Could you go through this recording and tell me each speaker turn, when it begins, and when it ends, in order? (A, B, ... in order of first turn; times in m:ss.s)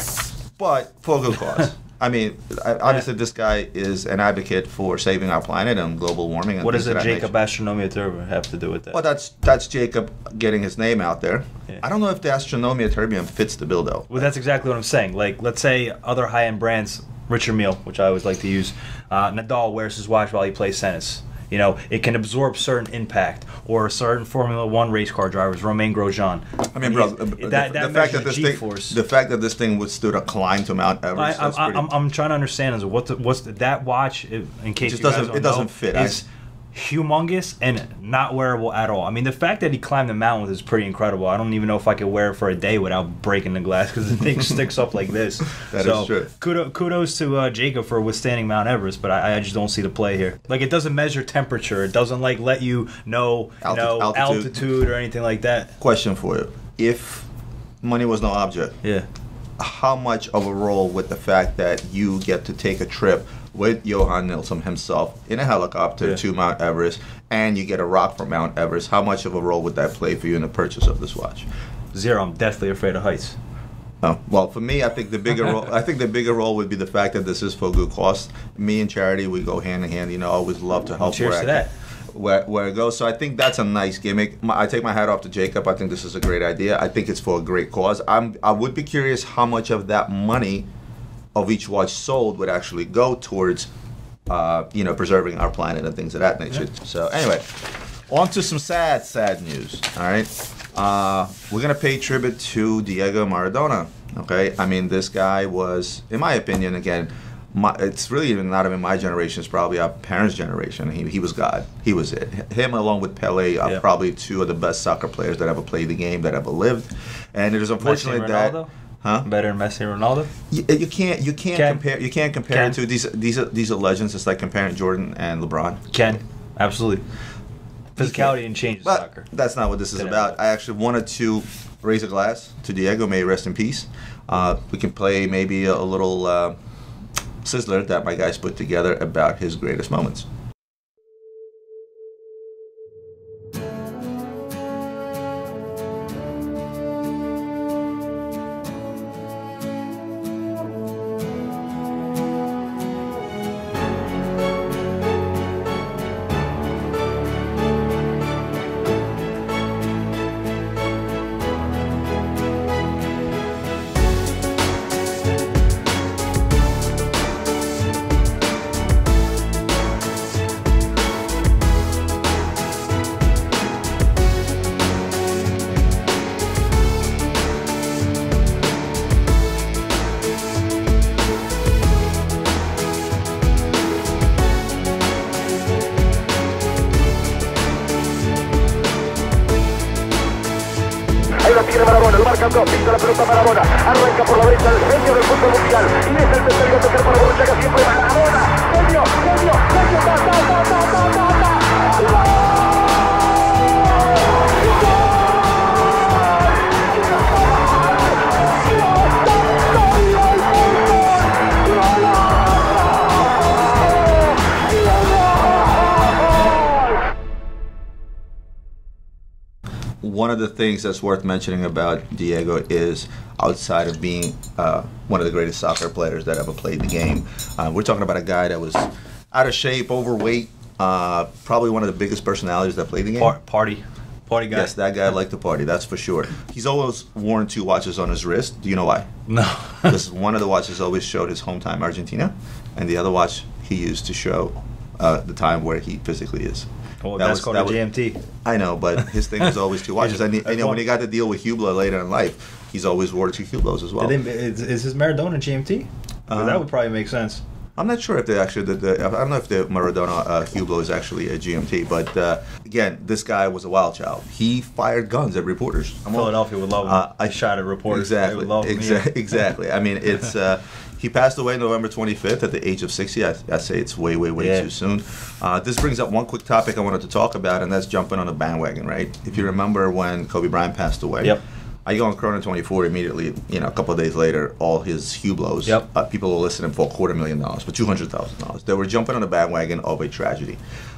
0:00.6-0:07.3 A
0:06.6-0:09.0 B
0:08.9-0:14.3 A
0:14.1-0:29.0 B
0:26.7-0:31.9 A
0:31.2-0:55.8 B
0:34.8-0:36.2 A
0:45.7-0:46.3 A
0:53.6-0:54.6 A
0:55.8-0:57.3 A
0:57.8-0:58.8 A
0:59.6-1:11.5 A
1:11.9-1:13.4 B
1:14.0-1:30.7 A
1:21.0-1:21.7 B
1:31.4-1:33.7 A
1:34.3-1:59.3 A
1:57.8-1:58.7 B
1:59.2-2:00.3 B
2:00.5-2:05.8 A
2:01.5-2:01.8 B
2:02.5-2:02.8 B
2:05.9-2:07.0 B
2:08.0-2:16.6 A
2:08.0-2:09.3 B
2:10.0-2:10.4 B
2:17.4-2:20.3 A
3:40.0-3:53.4 A
3:53.2-3:54.7 B
3:54.5-3:59.1 A
3:59.3-4:00.0 B
3:59.9-4:14.2 A
4:07.0-4:08.2 B
4:09.4-4:10.8 B
4:14.0-4:17.4 B
4:16.3-4:16.7 A
4:17.8-4:50.6 A
4:26.1-4:29.1 B
4:34.4-4:34.7 B